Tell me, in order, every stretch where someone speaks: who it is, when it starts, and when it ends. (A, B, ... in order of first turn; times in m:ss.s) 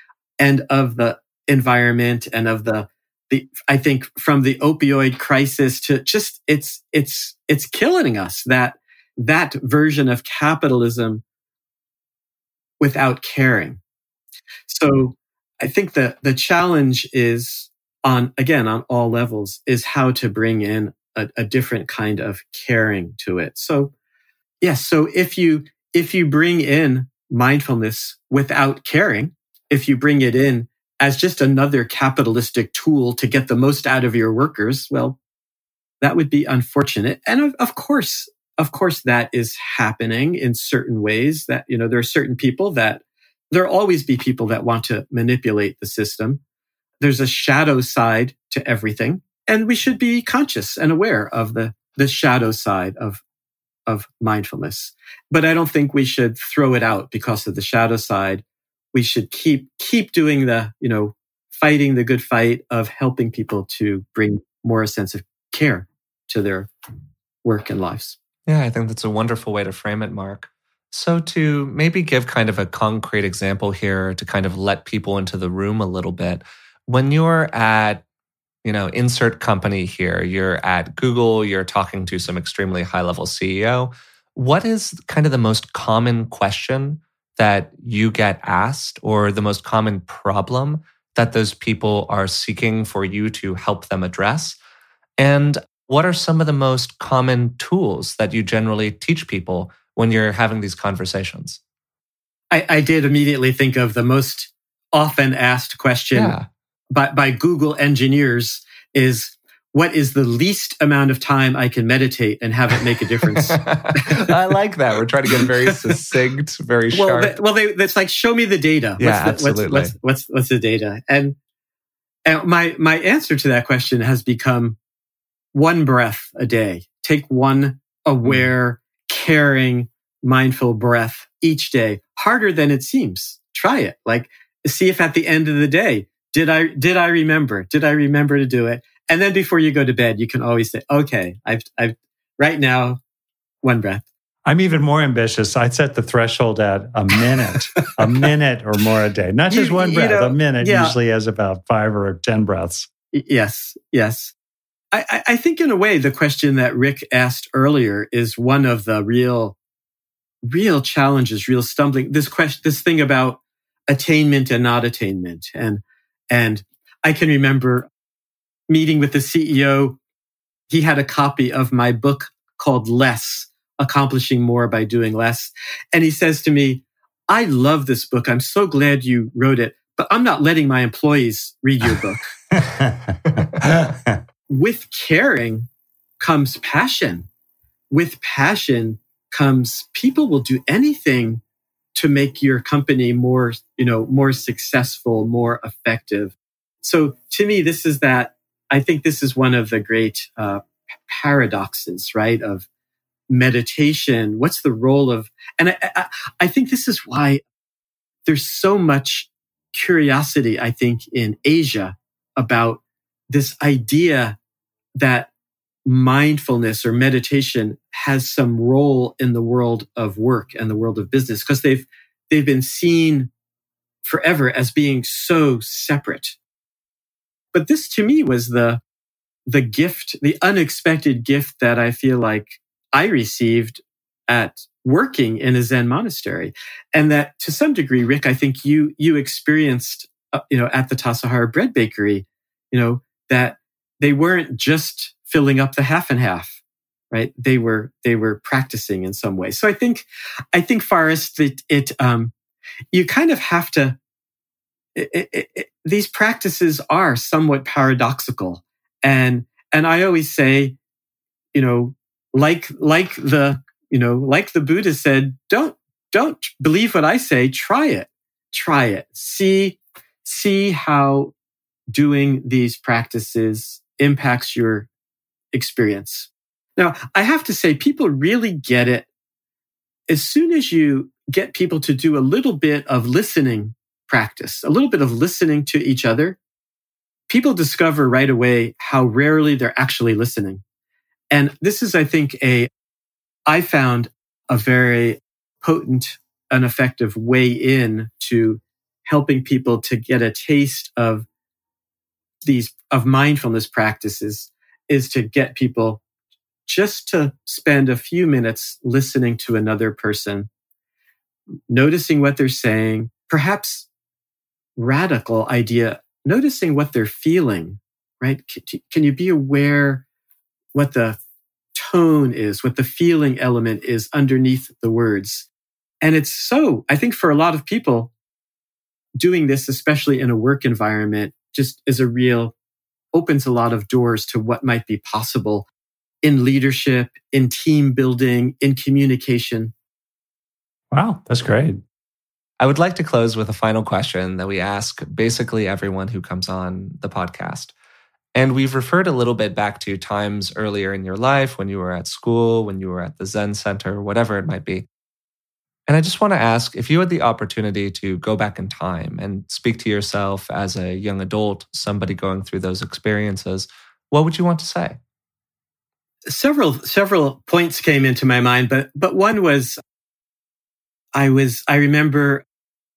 0:00.4-0:11.2 A
0:12.8-0:13.8 A
0:14.7-0:23.9 A
0:24.6-0:35.2 A
0:36.0-0:46.4 A
0:47.0-0:53.2 A
0:53.9-1:06.7 A
1:07.4-1:08.2 A
1:08.5-1:18.0 B
1:18.6-1:34.6 B
1:35.2-1:41.6 B
1:42.5-1:46.4 A
1:46.1-1:46.4 B
1:46.9-1:54.4 A
1:53.3-1:57.3 B
1:55.3-1:56.0 A
1:56.9-2:01.4 A
1:59.0-1:59.9 B
2:02.2-2:04.8 A
2:05.5-2:23.0 A
2:23.6-2:24.0 A
2:24.4-2:32.9 C
2:29.5-2:30.9 A
2:33.1-2:34.3 A
2:34.9-2:39.6 A
2:40.4-2:47.9 A
2:48.7-2:50.0 A
2:50.7-3:02.3 A
3:02.5-3:04.2 C
3:04.5-3:05.7 A
3:06.2-3:07.3 A
3:07.9-3:11.4 A
3:11.9-3:22.6 A
3:23.3-3:27.4 A
3:28.2-3:34.4 A
3:35.0-3:35.3 A
3:35.8-3:43.3 A
3:44.0-3:46.4 A
3:47.5-3:48.8 A
3:49.5-4:06.6 A
4:07.1-4:12.3 A
4:12.9-4:14.0 A
4:14.9-4:20.8 A
4:21.5-4:31.3 A
4:31.9-4:34.9 A
4:35.5-4:39.1 A
4:40.1-4:46.4 A
4:47.3-4:50.6 A
4:51.3-4:52.7 A
4:53.5-5:01.2 A
5:02.4-5:06.0 A
5:06.6-5:10.5 A
5:11.7-5:13.9 A
5:14.8-5:20.0 A
5:20.7-5:21.2 A
5:21.8-5:25.5 A
5:26.0-5:28.1 A
5:29.2-5:32.5 A
5:33.1-5:35.7 A
5:36.2-5:39.7 A
5:40.9-5:41.8 C
5:42.6-5:47.7 B
5:48.3-5:54.8 B
5:55.9-6:05.0 B
6:06.3-6:09.8 A
6:11.1-6:12.4 A